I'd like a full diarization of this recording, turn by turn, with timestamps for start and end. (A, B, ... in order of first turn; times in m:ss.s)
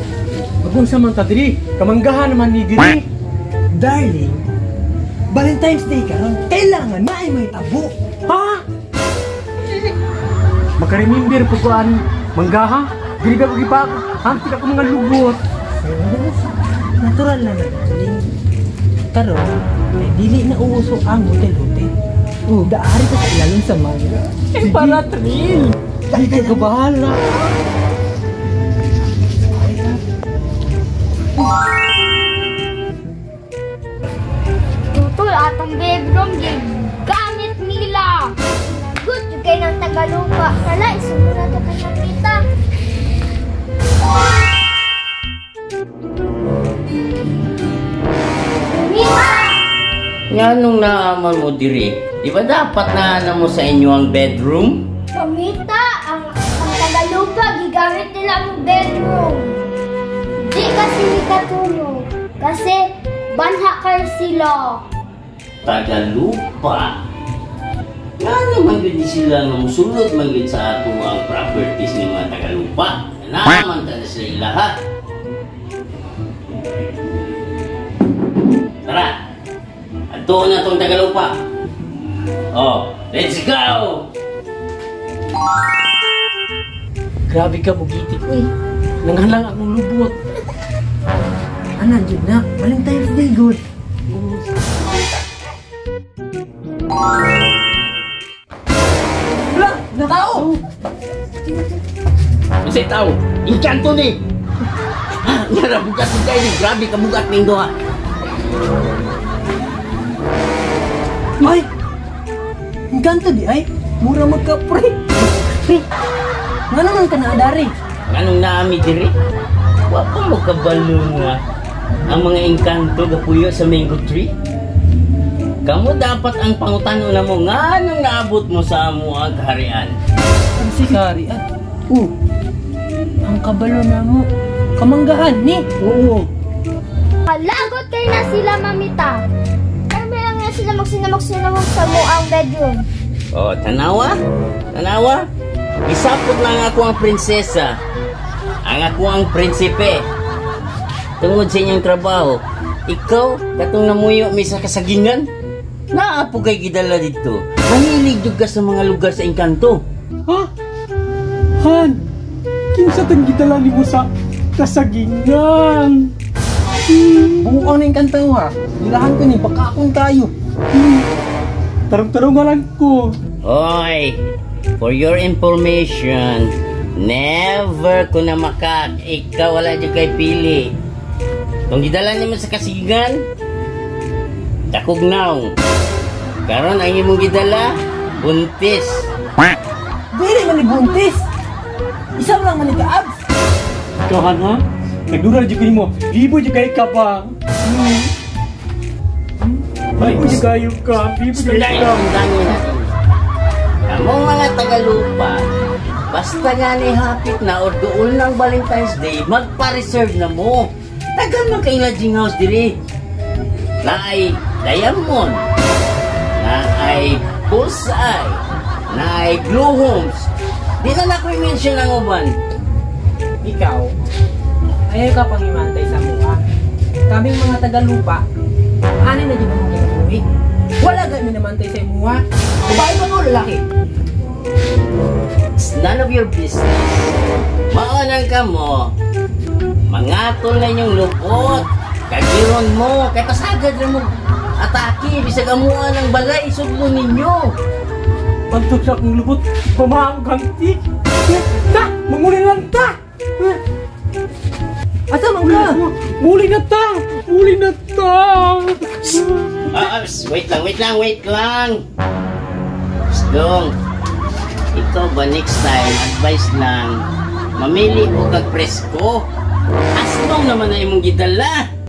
0:00.7-0:03.0 A
0:03.7-0:04.4 B
0:05.3-0:07.9 B
0:08.3-0:08.6 A
0:10.8-0:15.4 A
0:15.8-0:18.3 B
0:19.1-0:21.9 B
0:22.5-0:25.0 B
0:24.6-0:25.8 A
0:26.1-0:27.3 B
0:29.7-0:30.0 B
0:34.9-0:42.4 C
0:48.7-0:49.6 C
0:50.3-0:54.9 D
0:55.1-0:59.6 C
1:00.4-1:04.8 C
1:05.6-1:07.0 D
1:08.2-1:14.8 D
1:18.8-1:19.2 D
1:20.1-1:21.4 D
1:22.5-1:24.1 D
1:27.3-1:28.4 D
1:29.0-1:30.1 D
1:31.8-1:33.6 B
1:39.5-1:40.5 B
1:42.6-1:44.2 D
1:45.2-1:47.7 D
1:51.4-1:51.7 B
1:52.9-1:55.8 B
1:56.7-1:57.7 B
1:58.1-1:59.1 D
1:59.9-2:01.4 D
2:02.1-2:04.3 D
2:05.6-2:09.9 D
2:10.6-2:11.4 B
2:13.3-2:14.3 B
2:14.8-2:15.6 B
2:15.8-2:16.3 A
2:17.3-2:19.2 C
2:19.9-2:22.9 C
2:23.3-2:24.2 D
2:24.7-2:25.3 D
2:25.9-2:27.8 D
2:28.6-2:30.1 D
2:31.2-2:35.3 D
2:35.9-2:39.8 D
2:41.6-2:42.0 A
2:42.7-2:46.1 A
2:46.9-2:47.4 A
2:47.4-2:50.3 B
2:50.7-2:51.0 A
2:51.9-2:53.2 A
2:53.4-2:54.2 D
2:54.8-3:00.7 D
3:01.7-3:03.2 D
3:04.7-3:05.6 D
3:06.5-3:09.1 D
3:10.1-3:11.3 B
3:12.2-3:13.2 B
3:14.1-3:18.0 A
3:20.0-3:22.0 A
3:21.3-3:22.9 D
3:23.9-3:25.5 D
3:26.1-3:32.8 D
3:33.8-3:35.4 D
3:36.4-3:40.3 D
3:40.8-3:42.4 D
3:43.4-3:44.0 B
3:44.9-3:46.4 B
3:47.1-3:48.2 B
3:49.0-3:50.2 B
3:50.8-3:53.6 B
3:55.6-3:57.2 D
3:57.7-3:58.9 D
3:59.9-4:07.6 D
4:08.5-4:10.8 A
4:11.4-4:13.6 A
4:15.1-4:15.8 B
4:15.4-4:19.6 A
4:19.7-4:21.8 D
4:23.1-4:23.8 D
4:24.7-4:27.0 D
4:27.6-4:29.3 D
4:30.0-4:31.7 D